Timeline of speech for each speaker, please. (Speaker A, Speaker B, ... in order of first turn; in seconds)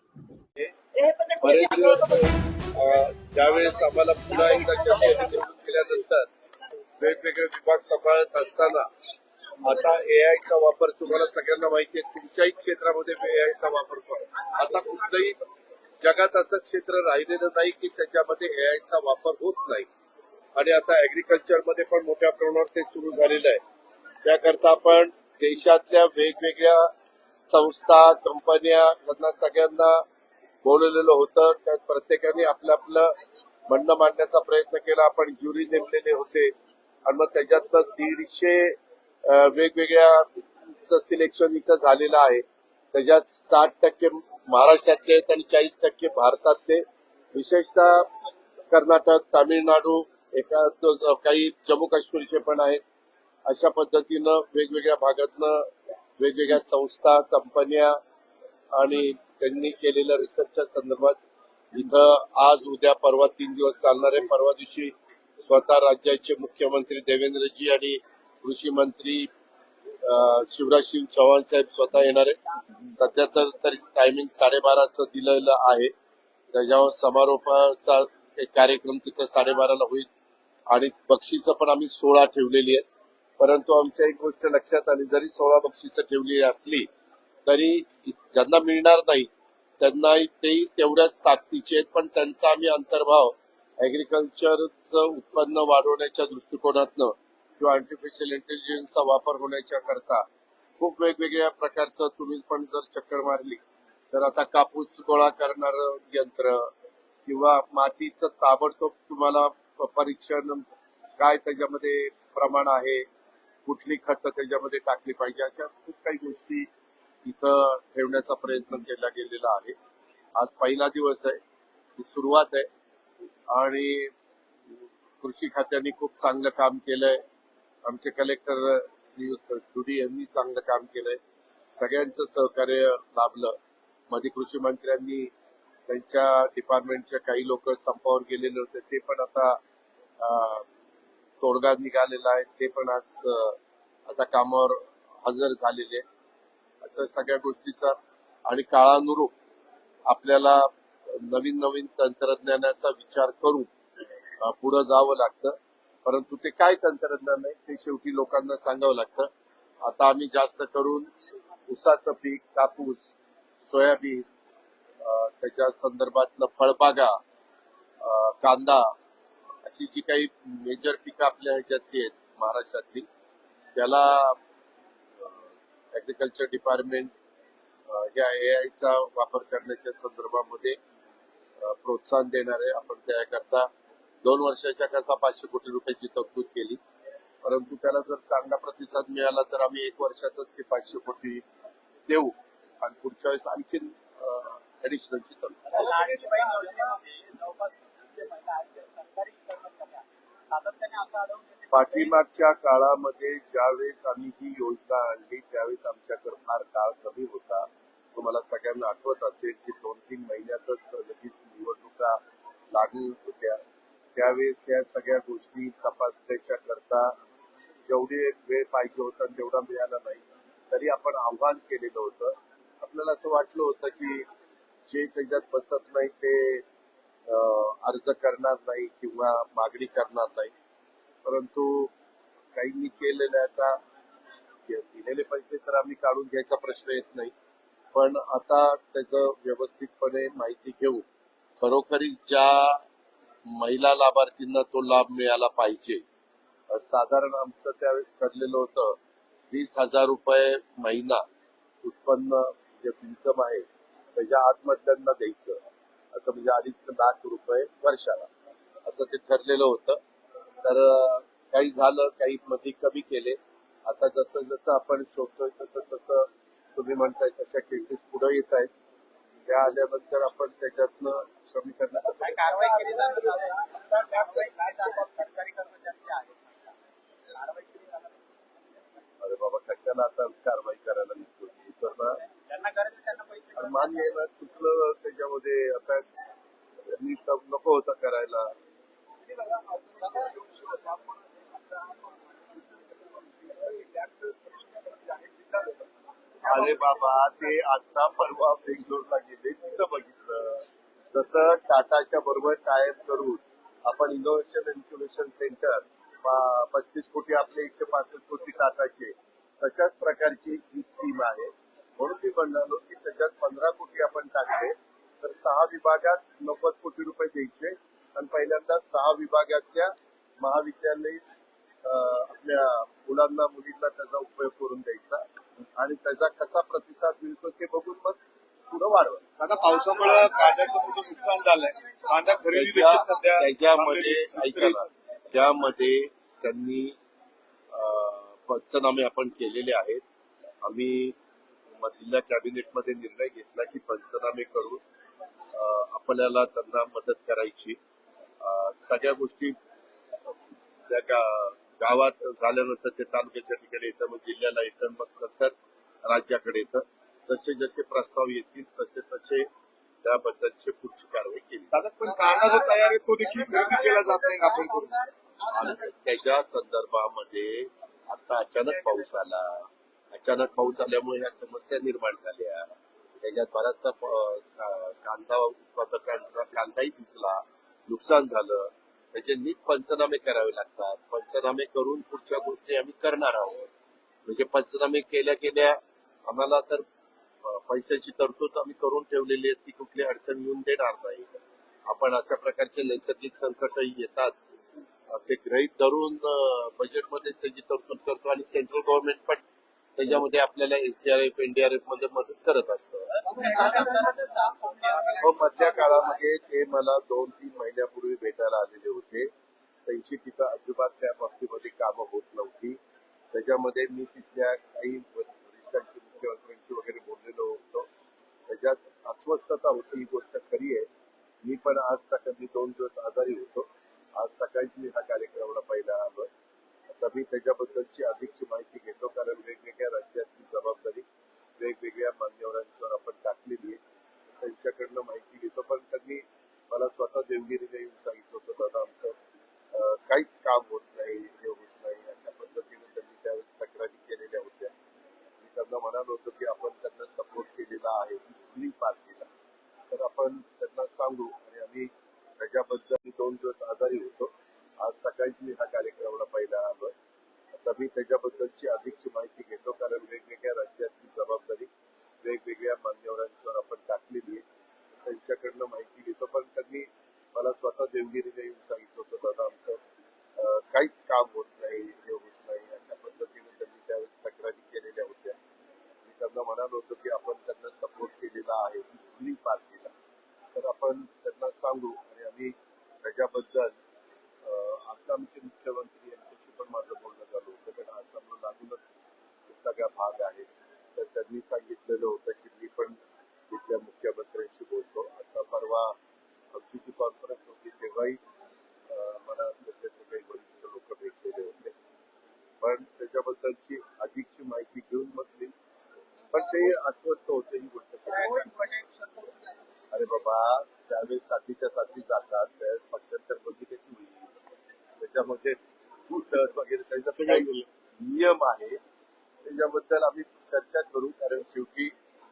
Speaker A: 1.4-6.3, 7.0-8.9, 9.6-15.4, 16.0-19.9, 20.5-23.6, 24.2-30.0, 30.6-33.1, 33.7-36.5, 37.1-48.1, 48.7-52.8, 53.5-58.0, 58.7-61.2, 61.7-69.3, 70.0-72.4, 72.9-75.9, 76.5-80.1, 80.7-82.8, 83.4-86.9, 87.5-89.3, 89.8-100.3, 100.8-103.6, 104.1-106.7, 107.3-110.6, 111.2-113.1, 113.7-116.7, 117.2-119.8, 120.4-121.4, 122.0-122.7, 123.5-124.1, 124.7-127.2, 127.9-131.2, 131.7-133.6, 134.1-135.3, 135.9-139.6, 140.2-140.7, 141.4-146.0, 146.8-149.3, 150.1-153.7, 154.4-159.3, 159.8-161.1, 161.7-164.2, 165.0-167.2, 168.0-168.9, 169.7-173.1, 173.7-174.4, 175.9-177.1, 177.9-180.8, 181.6-183.7, 184.2-186.8, 187.4-191.4, 192.1-196.0, 201.7-212.2, 212.7-213.6, 214.2-217.1, 217.8-224.3, 224.9-226.6, 227.3-230.5, 231.2-231.9, 232.6-233.8, 234.7-237.3, 237.9-241.0, 241.6-242.8, 243.5-246.0, 246.7-249.0, 249.5-251.2, 251.8-255.6, 256.1-258.3, 258.9-260.0, 260.6-268.7, 269.4-272.7, 279.2-282.2, 283.6-286.1, 286.9-288.5, 296.4-321.2, 321.8-325.2, 325.8-328.2, 328.7-329.2, 332.5-337.0, 337.7-340.0, 340.6-341.1, 341.8-344.8, 345.5-347.8, 348.4-349.6, 350.9-355.5, 356.1-359.5, 360.0-361.7, 365.4-383.7, 384.2-386.8, 387.4-394.3, 395.1-399.4, 400.0-403.9, 405.2-409.3, 409.9-412.8, 413.3-417.9, 418.5-420.9, 421.4-426.3, 426.9-431.1, 431.6-433.8, 434.4-439.1, 439.7-444.7, 445.4-449.3, 449.9-456.9, 457.6-461.7, 462.2-464.4, 465.0-469.8, 470.4-475.4, 476.1-479.9, 480.6-483.8, 484.4-488.8, 489.5-495.9, 496.5-498.2, 498.9-501.8, 502.6-505.5, 506.3-508.5, 509.9-514.3, 515.0-518.8, 519.4-522.0
Speaker B: 195.7-202.1, 272.2-276.7, 277.3-278.8, 282.2-284.1, 363.6-363.9, 403.2-406.2, 508.3-509.1
Speaker C: 289.3-295.9, 296.4-296.8, 329.4-334.8, 361.7-364.9, 517.1-517.7